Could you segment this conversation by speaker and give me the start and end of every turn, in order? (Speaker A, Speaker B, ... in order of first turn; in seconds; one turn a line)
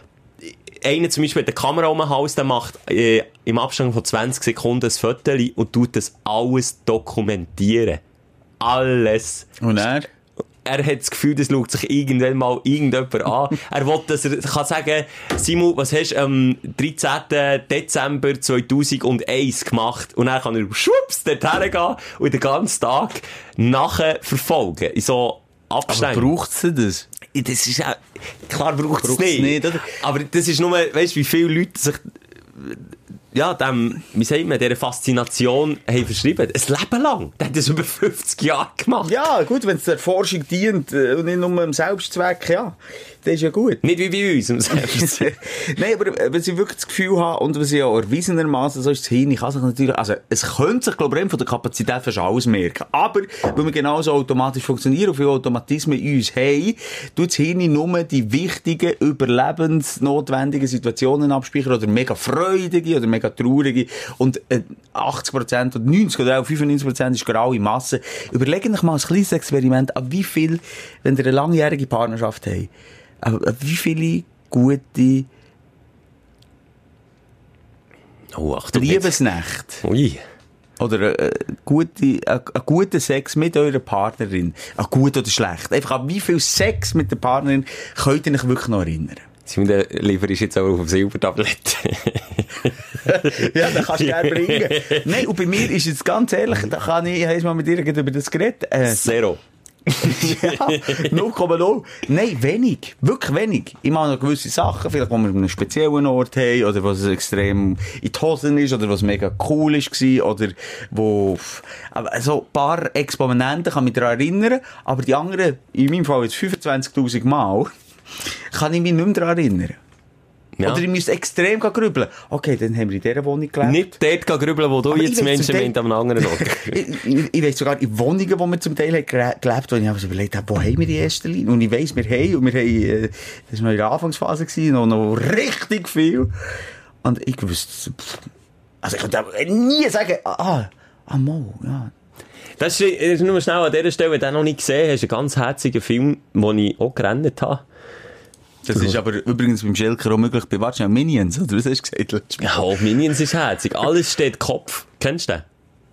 Speaker A: 0.4-8.0
Speaker A: 8.6-9.5
Speaker B: 9.6-10.1
Speaker A: 10.7-26.3
Speaker B: 25.9-27.1
Speaker A: 27.3-32.1
Speaker B: 29.0-29.9
Speaker A: 33.3-39.2
Speaker B: 39.0-43.8
Speaker A: 43.8-45.3
Speaker B: 44.7-72.7
Speaker B: 73.2-75.3
Speaker A: 78.3-79.2
Speaker B: 78.7-79.8
Speaker A: 79.8-80.2
Speaker B: 80.8-89.3
Speaker A: 89.5-95.5
Speaker B: 93.0-99.1
Speaker A: 98.9-101.1
Speaker B: 100.0-117.7
Speaker B: 118.5-119.8
Speaker A: 120.6-120.8
Speaker B: 120.6-124.0
Speaker A: 123.6-126.8
Speaker B: 124.9-136.3
Speaker B: 137.0-138.3
Speaker B: 138.8-141.9
Speaker A: 142.6-147.6
Speaker B: 148.6-152.6
Speaker A: 148.7-149.0
Speaker A: 152.4-155.4